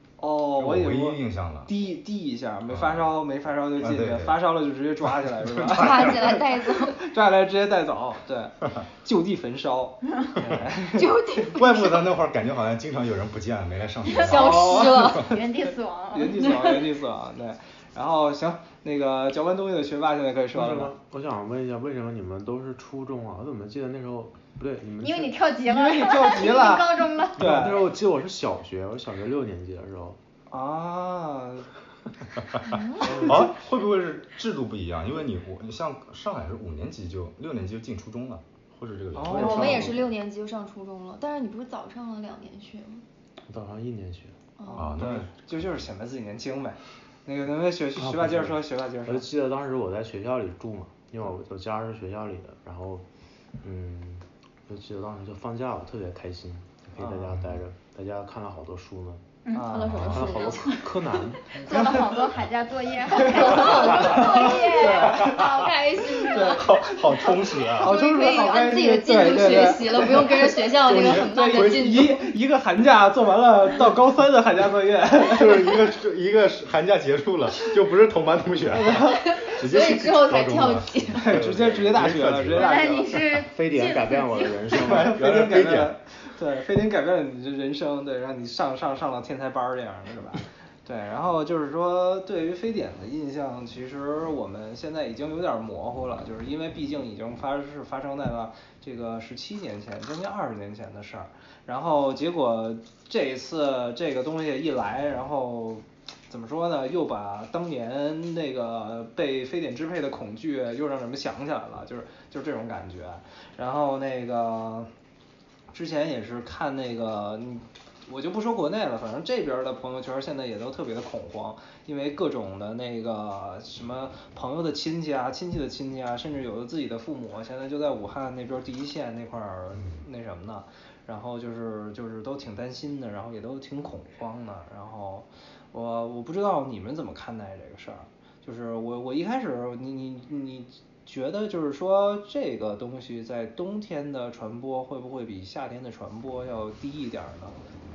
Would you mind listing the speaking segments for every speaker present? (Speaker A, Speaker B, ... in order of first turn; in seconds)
Speaker A: 0.2-11.2, 14.2-20.9, 25.6-27.9, 30.5-31.7, 33.0-33.5, 39.1-39.9, 44.6-49.2, 57.0-57.3, 59.5-60.4, 61.6-62.0, 63.1-65.4, 66.1-75.7, 78.7-79.6, 81.1-83.2, 84.7-114.9, 115.7-147.6
Speaker B: 0.6-1.7, 2.7-3.1, 3.8-4.4, 5.1-6.4, 11.4-15.2, 33.1-40.0, 44.7-45.6, 57.3-57.6, 60.0-60.3, 65.2-67.9, 70.9-72.2, 75.2-82.8, 84.7-85.9
Speaker C: 5.7-7.0, 10.9-12.1, 14.1-15.3, 32.6-33.2, 39.2-43.0, 44.6-45.0, 59.6-60.9, 63.2-72.3, 79.2-81.4
Speaker D: 15.0-16.9, 25.0-27.5, 59.4-59.8, 61.5-65.2, 82.5-84.6
Speaker E: 20.5-25.4, 27.4-30.2, 39.2-40.1, 43.5-44.4, 48.0-53.0, 53.6-59.2, 60.0-61.6, 83.3-85.2